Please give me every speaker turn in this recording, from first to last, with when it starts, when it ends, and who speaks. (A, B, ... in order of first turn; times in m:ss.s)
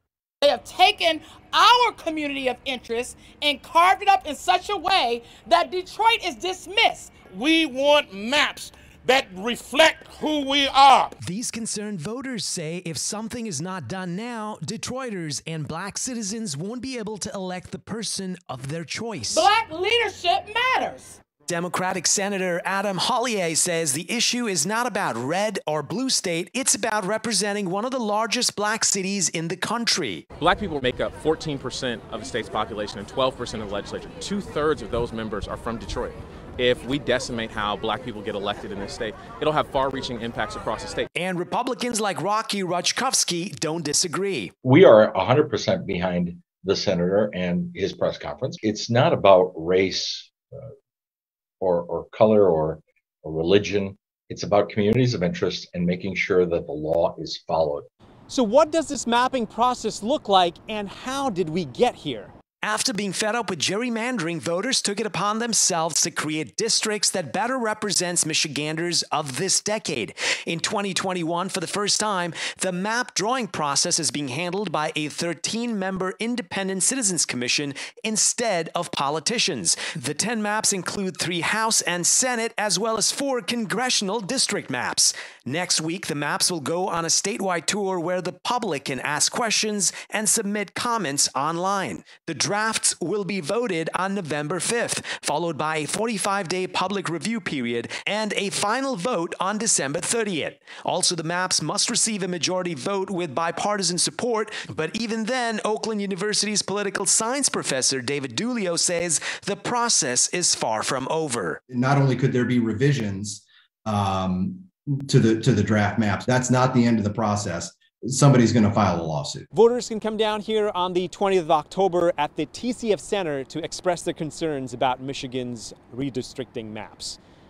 0:00.4-0:07.4 A
0:07.3-0:11.1 B
0:11.2-0:19.4 C
0:19.3-0:21.2 A
0:21.5-0:30.2 C
0:30.4-0:41.1 D
0:41.2-0:44.5 C
0:44.6-0:50.7 E
0:51.6-0:57.9 E
0:58.3-0:58.9 C
0:58.6-1:00.2 F
1:00.2-1:51.6 C
1:00.8-1:02.2 F
1:51.7-1:59.4 G
1:59.5-2:01.0 C
1:59.8-2:03.0 F
2:02.1-2:04.2 C
2:03.6-2:04.6 F
2:04.7-2:06.3 C
2:05.1-2:07.1 F
2:06.8-2:07.1 C